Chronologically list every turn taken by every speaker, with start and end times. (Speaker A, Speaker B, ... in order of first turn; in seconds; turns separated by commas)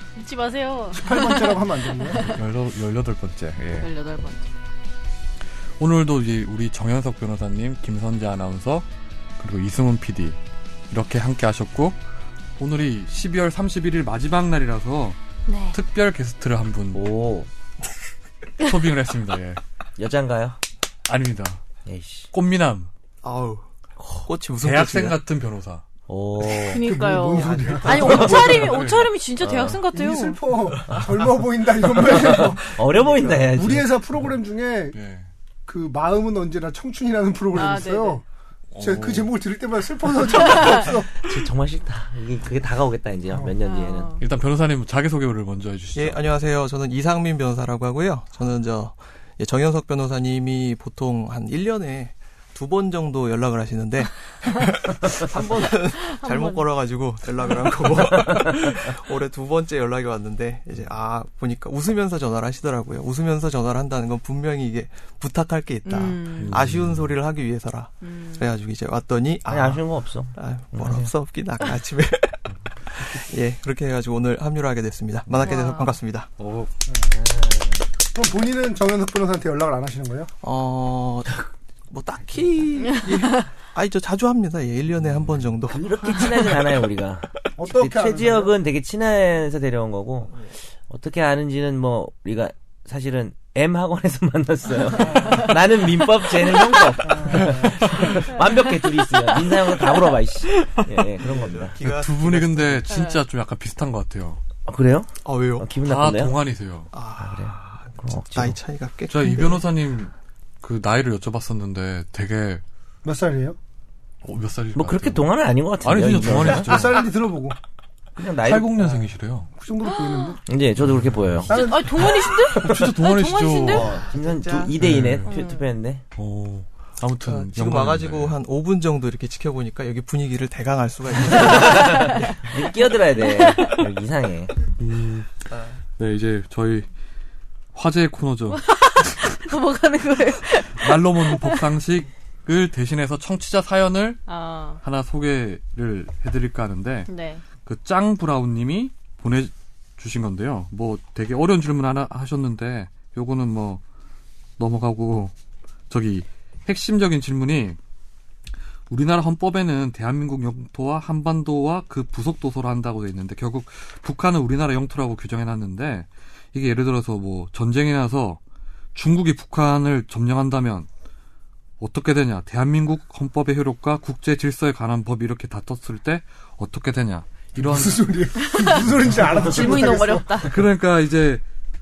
Speaker A: 0.2-2.4, Speaker B: 0.9-2.4, Speaker C: 2.2-3.9, Speaker A: 3.8-4.5, Speaker C: 5.8-8.9, Speaker C: 9.4-10.4, Speaker C: 10.9-12.0, Speaker C: 12.6-15.2, Speaker A: 15.5-15.8, Speaker C: 15.7-17.0, Speaker D: 16.9-17.5, Speaker C: 18.6-19.6, Speaker D: 20.0-20.6, Speaker C: 21.1-21.6, Speaker D: 21.9-22.3, Speaker C: 22.3-22.9, Speaker E: 23.2-23.7, Speaker E: 24.2-25.2, Speaker C: 24.6-25.8, Speaker D: 26.1-28.7, Speaker A: 26.6-30.4, Speaker B: 26.8-28.7, Speaker C: 28.4-29.1, Speaker D: 29.4-29.8, Speaker B: 29.9-32.8, Speaker D: 30.9-31.2, Speaker D: 31.8-34.0, Speaker E: 33.0-33.4, Speaker B: 33.4-35.0, Speaker C: 34.9-35.3, Speaker B: 35.7-38.2, Speaker A: 37.5-38.2, Speaker C: 38.7-39.3, Speaker B: 38.8-41.3, Speaker A: 40.5-40.9, Speaker D: 41.2-44.2, Speaker A: 43.6-44.2, Speaker C: 44.2-46.2, Speaker E: 46.0-69.8, Speaker A: 55.9-56.7, Speaker A: 65.8-66.6, Speaker C: 66.4-67.1, Speaker A: 68.0-68.5, Speaker D: 69.5-71.1, Speaker E: 70.3-76.3, Speaker A: 75.4-76.0, Speaker C: 76.4-76.7, Speaker D: 77.0-77.9, Speaker B: 78.1-80.3, Speaker E: 80.4-86.6, Speaker A: 82.9-83.5, Speaker D: 85.7-101.8, Speaker B: 87.6-88.5, Speaker A: 95.1-95.5, Speaker B: 97.1-97.4, Speaker E: 97.3-98.1, Speaker C: 100.6-100.9, Speaker E: 101.2-102.9, Speaker C: 101.8-104.4, Speaker A: 102.9-103.2, Speaker D: 104.7-106.3, Speaker E: 105.2-105.7, Speaker C: 105.8-106.9, Speaker E: 106.9-109.7, Speaker D: 107.2-108.6, Speaker C: 109.1-112.6, Speaker B: 113.0-113.6, Speaker C: 114.2-115.3, Speaker D: 114.8-116.8, Speaker C: 115.8-117.1, Speaker B: 116.5-117.6, Speaker D: 118.2-118.7, Speaker C: 118.4-119.5, Speaker B: 119.6-120.4, Speaker A: 119.8-120.4, Speaker D: 120.5-121.6, Speaker C: 120.8-121.5, Speaker A: 121.5-124.0, Speaker B: 121.5-122.1, Speaker C: 122.5-123.9, Speaker D: 122.5-122.9, Speaker D: 123.7-126.0, Speaker E: 124.1-124.8, Speaker C: 124.8-125.3, Speaker A: 125.2-125.6, Speaker C: 126.2-128.4, Speaker E: 127.2-132.4, Speaker A: 131.3-132.3, Speaker D: 131.3-134.5, Speaker A: 133.2-133.7, Speaker C: 134.8-136.9, Speaker E: 135.5-135.8, Speaker C: 137.7-138.6, Speaker A: 138.6-141.6, Speaker C: 140.8-144.2, Speaker A: 144.3-144.8, Speaker C: 144.8-147.1, Speaker A: 147.1-147.4, Speaker C: 147.7-153.8, Speaker C: 154.6-155.3, Speaker C: 155.9-157.8, Speaker C: 158.9-168.4, Speaker C: 168.9-170.9, Speaker C: 171.8-178.2, Speaker B: 177.6-180.6, Speaker A: 178.4-178.8, Speaker C: 178.8-179.5, Speaker D: 179.2-180.0, Speaker A: 179.3-180.6, Speaker C: 180.4-181.4